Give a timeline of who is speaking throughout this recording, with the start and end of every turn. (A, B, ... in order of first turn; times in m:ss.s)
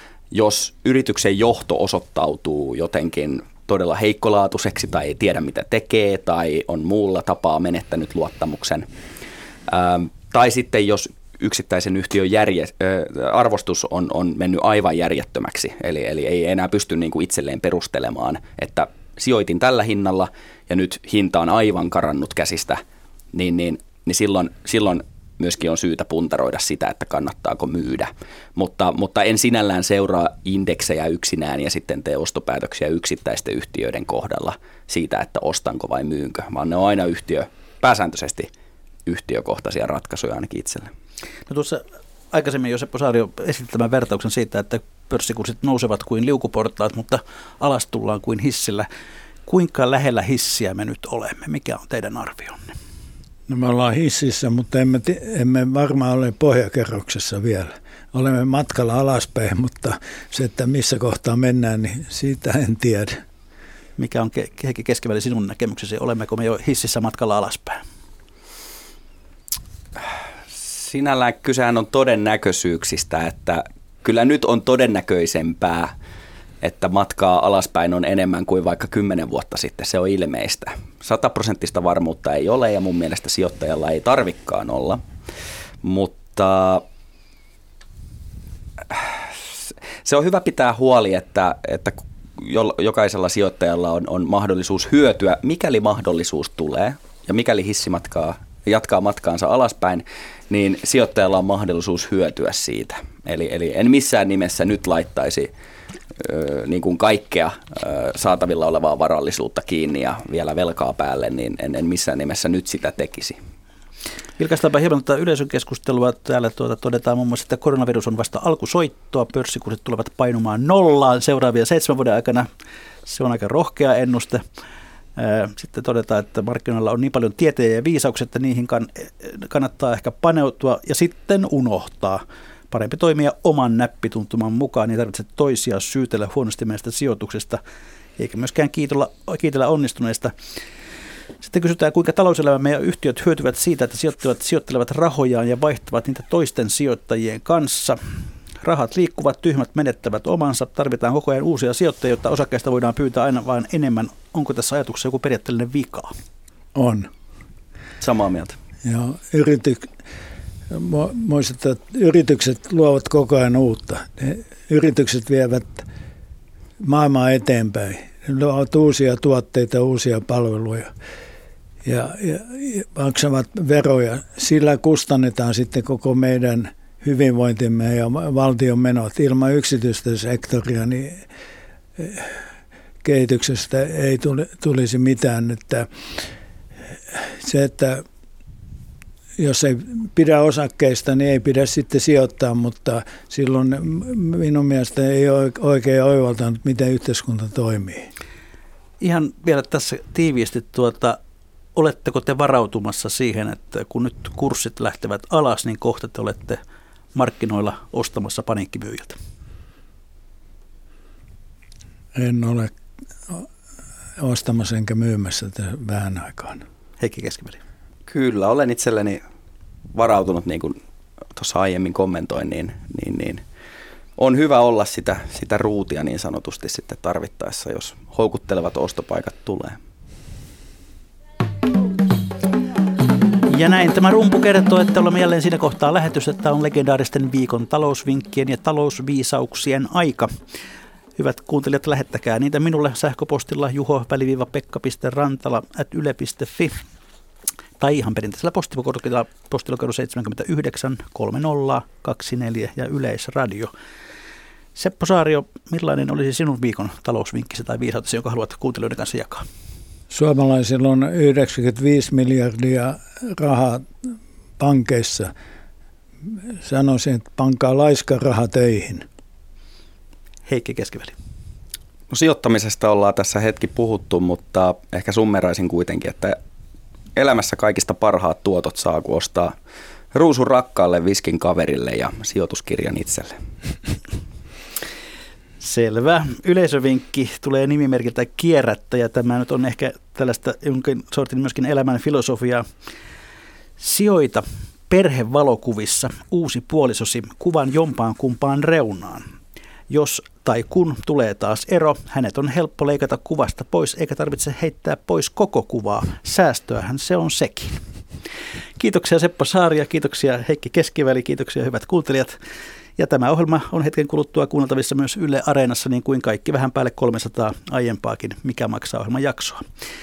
0:00.3-0:08.8 A
0:09.7-0:22.8 A
0:23.3-0:38.5 A
0:39.1-0:40.9 A
0:41.5-0:48.9 B
0:49.5-0:52.7 B
0:53.5-1:03.2 C
1:04.0-1:07.8 B
1:10.6-1:15.9 A
1:16.6-1:25.0 A
1:25.8-1:26.8 A
1:28.9-1:29.2 A
1:30.0-1:45.5 A
1:46.2-1:53.4 A
1:54.4-2:02.5 B
2:03.1-2:04.4 B
2:05.2-2:17.6 B
2:18.2-2:20.3 B
2:21.4-2:28.0 B
2:28.6-2:36.1 B
2:36.8-2:37.1 C
2:38.0-2:38.6 A
2:38.8-2:39.9 C
2:40.7-2:45.9 C
2:46.8-2:50.9 C
2:51.8-3:01.2 C
3:02.0-3:02.4 C
3:03.0-3:05.9 C
3:07.1-3:08.0 C
3:09.4-3:18.1 C
3:19.0-3:21.2 B
3:21.8-3:26.6 B
3:27.2-3:29.2 B
3:32.2-3:32.7 C
3:34.2-3:36.6 C
3:37.0-3:37.6 B
3:38.1-3:39.2 A
3:39.9-3:40.8 A
3:41.4-3:43.4 A
3:44.2-3:49.8 A
3:53.5-4:00.3 B
4:01.2-4:06.8 B
4:07.8-4:13.7 B
4:14.8-4:19.4 B
4:20.1-4:25.3 C
4:26.6-4:29.1 C
4:30.5-4:31.2 B
4:32.1-4:36.4 A
4:37.2-4:39.6 A
4:40.1-4:43.4 A
4:45.6-4:52.7 B
4:53.8-4:59.3 B
4:59.9-5:07.8 B
5:08.8-5:12.4 B
5:13.0-5:19.6 B